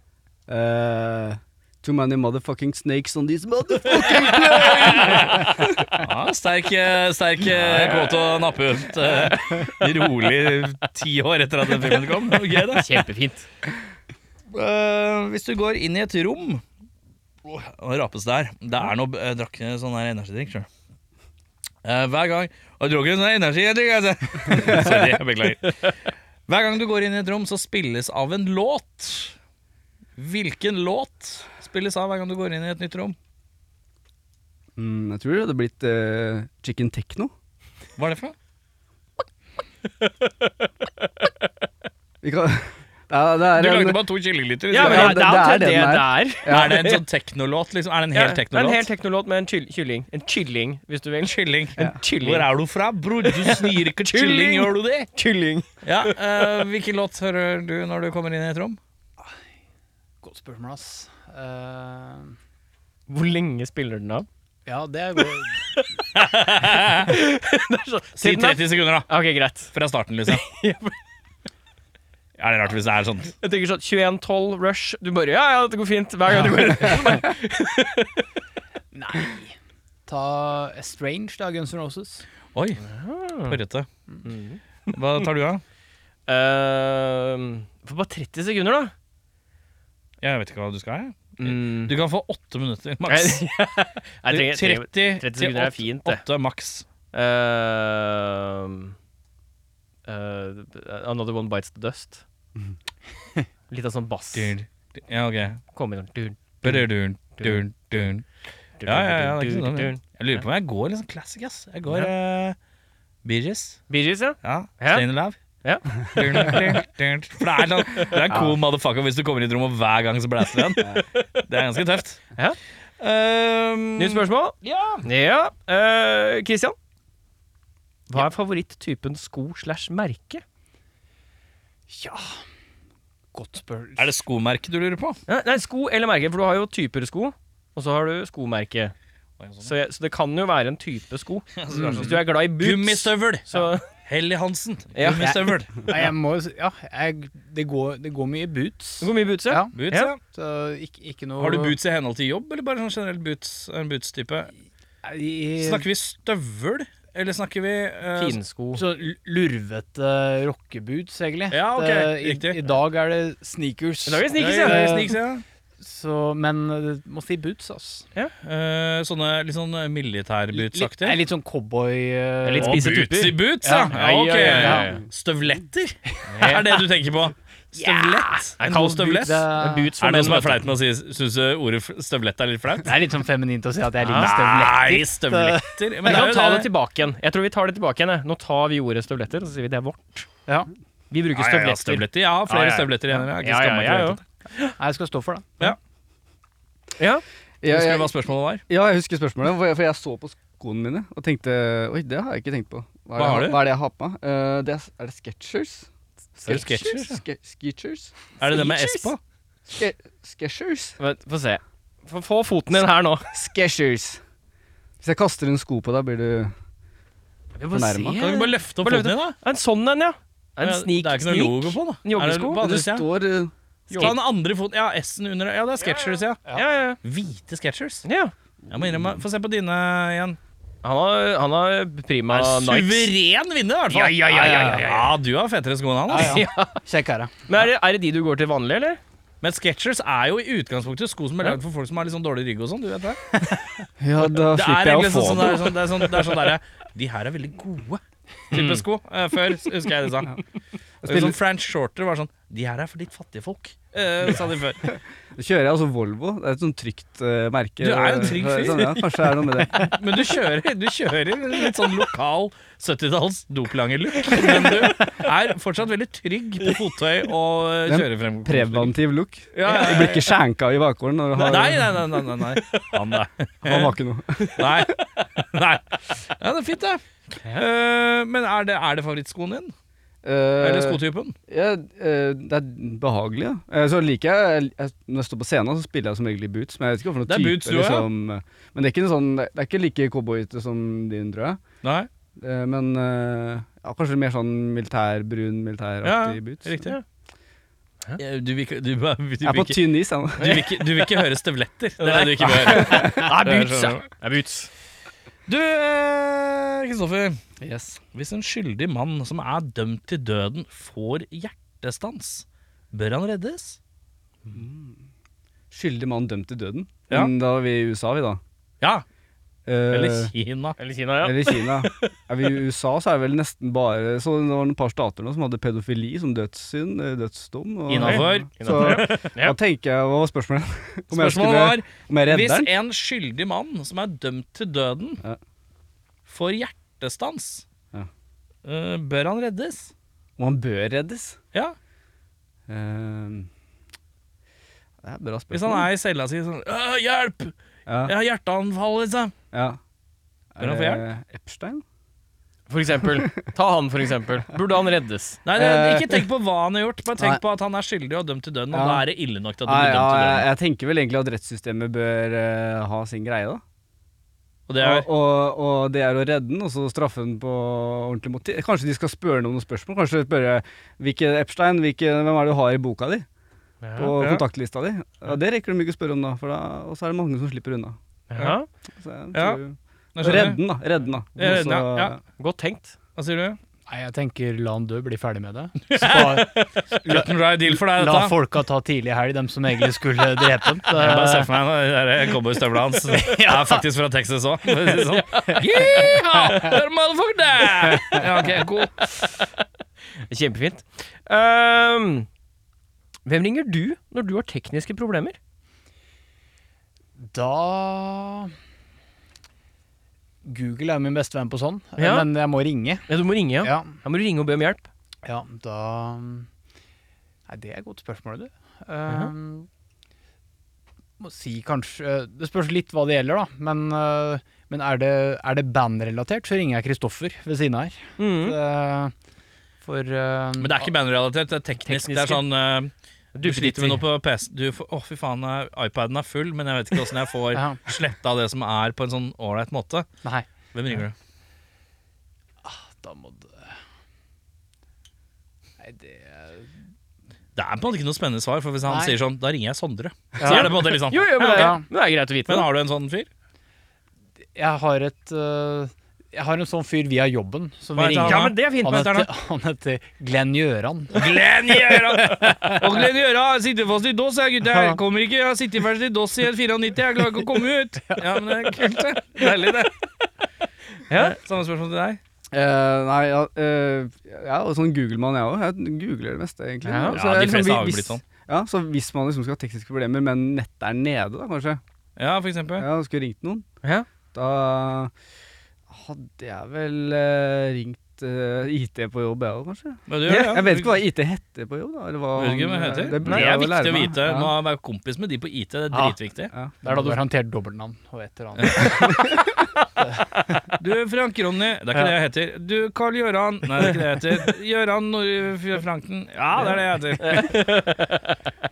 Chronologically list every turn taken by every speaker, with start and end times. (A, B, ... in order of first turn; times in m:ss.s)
0:00.5-0:06.0 A
0:04.3-0:13.0 B
0:04.5-0:05.0 C
0:12.7-0:13.5 C
0:14.5-0:16.6 B
0:17.4-0:20.7 B
0:21.8-0:26.0 B
0:24.5-0:25.0 A
0:26.5-0:29.4 B
0:30.2-0:33.2 B
0:34.8-0:37.3 A
0:38.0-0:38.4 B
0:40.0-0:40.5 C
0:41.0-0:41.3 C
0:42.2-0:44.0 A
0:43.6-0:45.3 B
0:44.7-0:47.0 C
0:44.8-0:46.9 A
0:46.5-0:48.9 B
0:48.1-0:52.5 C
0:51.2-0:55.1 B
0:53.2-0:55.7 C
0:55.8-0:58.8 B
1:00.2-1:02.4 D
1:03.1-1:04.3 C
1:04.7-1:05.6 D
1:06.2-1:07.1 B
1:06.9-1:09.7 C
1:08.2-1:09.1 B
1:09.7-1:10.4 B
1:10.3-1:11.0 C
1:12.4-1:13.4 B
1:13.4-1:18.2 C
1:18.9-1:22.3 D
1:22.5-1:22.8 B
1:22.8-1:23.6 C
1:23.4-1:23.9 B
1:24.2-1:24.9 C
1:24.9-1:25.6 B
1:26.3-1:28.9 C
1:30.2-1:33.6 B
1:31.4-1:31.9 C
1:33.1-1:36.2 C
1:34.3-1:36.9 B
1:37.1-1:39.0 C
1:40.0-1:42.2 C
1:43.7-1:44.5 C
1:44.3-1:45.6 B
1:45.7-1:46.8 C
1:46.6-1:48.3 B
1:47.4-1:47.7 C
1:48.8-1:50.0 C
1:48.9-1:52.6 B
1:53.2-1:53.9 B
1:53.9-1:55.0 C
1:54.4-1:55.4 B
1:55.6-1:56.7 C
1:56.0-2:02.2 B
2:03.0-2:05.1 B
2:04.0-2:06.8 C
2:08.1-2:10.4 C
2:11.9-2:12.4 D
2:13.3-2:14.1 D
2:14.0-2:15.2 B
2:15.3-2:18.9 C
2:19.4-2:19.7 B
2:19.6-2:23.9 C
2:21.6-2:23.5 B
2:24.0-2:25.9 B
2:25.0-2:25.4 C
2:25.2-2:31.8 D
2:29.0-2:30.1 C
2:29.8-2:30.2 B
2:31.4-2:34.5 B
2:35.0-2:35.9 D
2:35.6-2:38.4 B
2:38.2-2:38.8 C
2:38.7-2:45.2 D
2:41.5-2:42.6 B
2:44.1-2:45.1 C
2:44.4-2:45.4 B
2:45.8-2:48.1 D
2:48.4-2:51.2 B
2:50.5-2:52.9 D
2:52.4-2:53.4 C
2:52.6-2:59.4 B
2:53.6-2:55.0 D
2:53.9-2:55.0 C
2:56.3-2:56.7 C
2:57.8-2:59.9 D
2:58.6-3:00.6 C
3:00.0-3:02.9 B
3:02.8-3:05.9 D
3:04.0-3:04.3 C
3:04.2-3:06.7 B
3:06.0-3:10.3 C
3:11.1-3:14.7 C
3:11.3-3:14.2 B
3:14.8-3:15.7 D
3:17.0-3:17.2 C
3:17.6-3:18.1 A
3:17.7-3:18.6 B
3:18.7-3:28.1 A
3:23.2-3:23.6 B
3:26.5-3:27.2 B
3:28.4-3:29.2 B
3:28.4-3:29.1 C
3:29.7-3:31.0 A
3:31.0-3:33.3 C
3:33.3-3:34.2 A
3:35.0-3:36.5 A
3:37.6-3:42.6 C
3:37.7-3:38.2 A
3:38.2-3:39.4 B
3:40.6-3:43.1 B
3:42.6-3:43.5 A
3:43.9-3:44.2 C
3:43.9-3:48.0 B
3:46.5-3:47.0 C
3:48.0-3:48.3 C
3:48.7-3:49.2 A
3:48.7-3:50.4 B
3:50.8-3:53.1 C
3:52.3-3:56.5 B
3:53.9-3:55.2 C
3:54.3-3:54.9 D
3:56.1-3:57.3 D
3:56.1-3:56.8 C
3:57.5-3:59.0 C
3:59.4-4:03.4 B
4:04.0-4:05.9 A
4:04.3-4:10.4 B
4:08.5-4:08.8 C
4:11.0-4:11.4 A
4:11.0-4:14.8 B
4:15.4-4:19.9 A
4:17.8-4:19.0 B
4:19.4-4:19.9 C
4:19.7-4:28.9 B
4:24.4-4:24.7 C
4:27.9-4:32.1 A
4:29.6-4:30.3 B
4:31.4-4:34.0 B
4:33.6-4:34.9 A
4:34.5-4:39.7 B
4:40.2-4:51.6 A
4:40.6-4:41.4 B
4:47.3-4:48.1 B
4:51.8-4:52.1 B
4:52.4-4:56.8 A
4:56.0-4:57.0 B
4:58.2-5:04.1 B
4:59.4-5:00.7 A
5:02.0-5:04.7 C
5:02.6-5:03.3 A
5:05.5-5:07.4 B
5:07.6-5:08.0 A
5:08.1-5:13.8 B
5:14.5-5:15.0 A
5:15.7-5:18.4 A
5:19.7-5:20.3 A
5:19.9-5:20.8 B
5:20.8-5:22.0 C
5:21.2-5:32.7 A
5:27.9-5:29.3 B
5:28.0-5:29.6 C
5:31.1-5:35.2 B
5:36.3-5:37.7 B
5:38.6-5:39.9 B
5:40.4-5:41.4 A
5:42.7-5:43.5 A
5:45.0-5:45.9 A
5:45.5-5:49.3 B
5:47.9-5:48.1 A
5:49.5-5:49.8 A
5:50.6-5:51.8 A
5:50.6-5:51.0 B
5:52.7-5:55.4 C
5:53.1-5:53.4 A
5:55.5-6:00.5 B
5:55.6-5:56.3 A
5:58.7-5:59.0 A
5:59.6-6:03.6 A
6:04.7-6:05.1 B
6:04.8-6:13.3 A
6:13.8-6:14.1 C
6:14.0-6:18.0 A
6:14.2-6:14.4 B
6:18.3-6:18.7 C
6:19.0-6:22.2 A
6:19.3-6:19.6 B
6:20.2-6:20.6 B
6:21.4-6:22.2 B
6:22.4-6:22.9 C
6:23.2-6:23.6 B
6:23.9-6:31.5 D
6:25.9-6:28.3 B
6:30.9-6:39.3 B
6:33.1-6:33.8 D
6:35.5-6:36.7 D
6:40.3-6:42.3 C
6:43.2-6:45.4 C
6:47.2-6:48.5 D
6:50.4-6:54.0 D
6:52.0-6:52.3 C
6:53.1-6:54.9 C
6:55.2-6:56.5 D
6:57.5-6:59.7 D
7:01.2-7:09.1 D
7:08.2-7:08.6 C
7:09.8-7:10.9 D
7:10.6-7:12.9 B
7:11.8-7:12.4 C
7:13.3-7:14.0 C
7:13.4-7:20.1 B
7:17.5-7:17.8 D
7:20.7-7:21.1 B
7:22.6-7:23.7 D
7:25.8-7:26.7 D
7:27.6-7:31.8 B
7:28.8-7:29.2 D
7:30.4-7:30.7 D
7:30.4-7:32.7 C
7:31.4-7:31.8 D
7:32.5-7:33.3 B
7:34.6-7:43.0 D
7:38.0-7:39.3 B
7:38.2-7:39.1 C
7:41.1-7:50.0 B
7:44.7-7:45.0 D
7:51.1-7:51.4 C
7:51.1-7:52.2 B
7:52.5-8:01.8 A
7:56.8-7:57.2 C
7:57.1-7:58.2 B
8:02.2-8:02.9 B
8:02.8-8:03.7 A
8:04.3-8:05.1 A
8:05.9-8:14.5 A
8:10.1-8:11.0 B
8:10.3-8:10.6 C
8:12.4-8:16.5 B
8:13.2-8:13.7 C
8:16.8-8:19.5 D
8:18.8-8:19.1 B
8:19.0-8:19.3 A
8:20.0-8:20.5 D
8:20.8-8:27.8 B
8:27.2-8:28.2 C